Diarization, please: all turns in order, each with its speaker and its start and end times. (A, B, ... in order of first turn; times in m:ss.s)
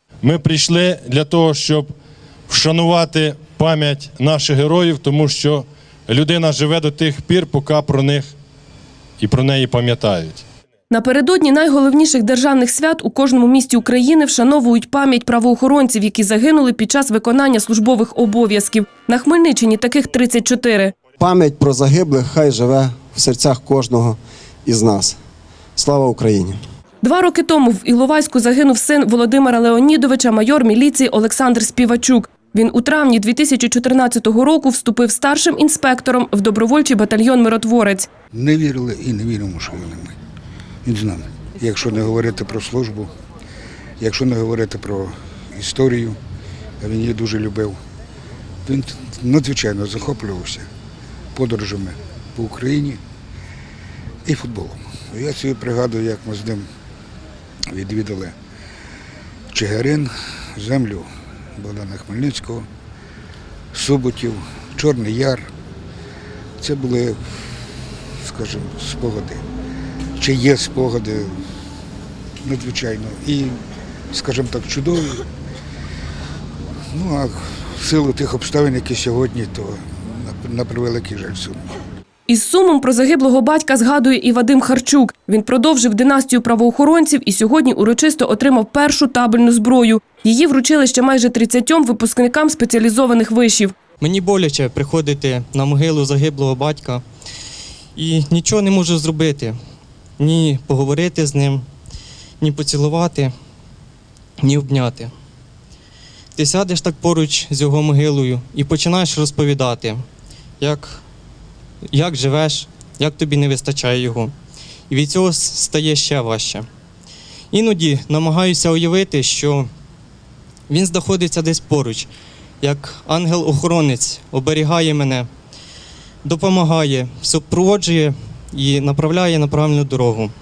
0:00.2-0:01.9 A
0:02.5-0:08.3 A
0:09.2-0:10.4 A
0:10.9-0:20.9 B
0:21.2-0:25.2 C
0:25.8-0:26.6 C
0:27.0-0:38.1 B
0:38.3-0:40.1 D
0:40.8-0:43.1 D
0:44.0-0:46.2 D
0:46.8-0:47.8 D
0:48.6-0:50.6 D
0:51.3-0:53.0 D
0:54.2-0:56.7 D
0:57.7-0:58.3 D
0:59.5-1:02.7 D
1:03.7-1:05.5 D
1:06.6-1:07.6 D
1:08.2-1:09.4 D
1:10.2-1:11.4 D
1:12.4-1:13.6 D
1:14.1-1:15.2 D
1:16.9-1:21.7 D
1:22.3-1:33.7 B
1:34.0-1:37.0 E
1:38.0-1:39.6 E
1:40.2-1:41.6 E
1:42.4-1:43.3 E
1:44.4-1:45.1 E
1:46.4-1:50.0 E
1:50.6-1:51.0 E
1:51.9-1:54.3 E
1:54.9-1:56.6 E
1:57.5-1:59.7 E
2:00.7-2:02.1 E
2:02.6-2:05.3 E
2:06.2-2:10.3 E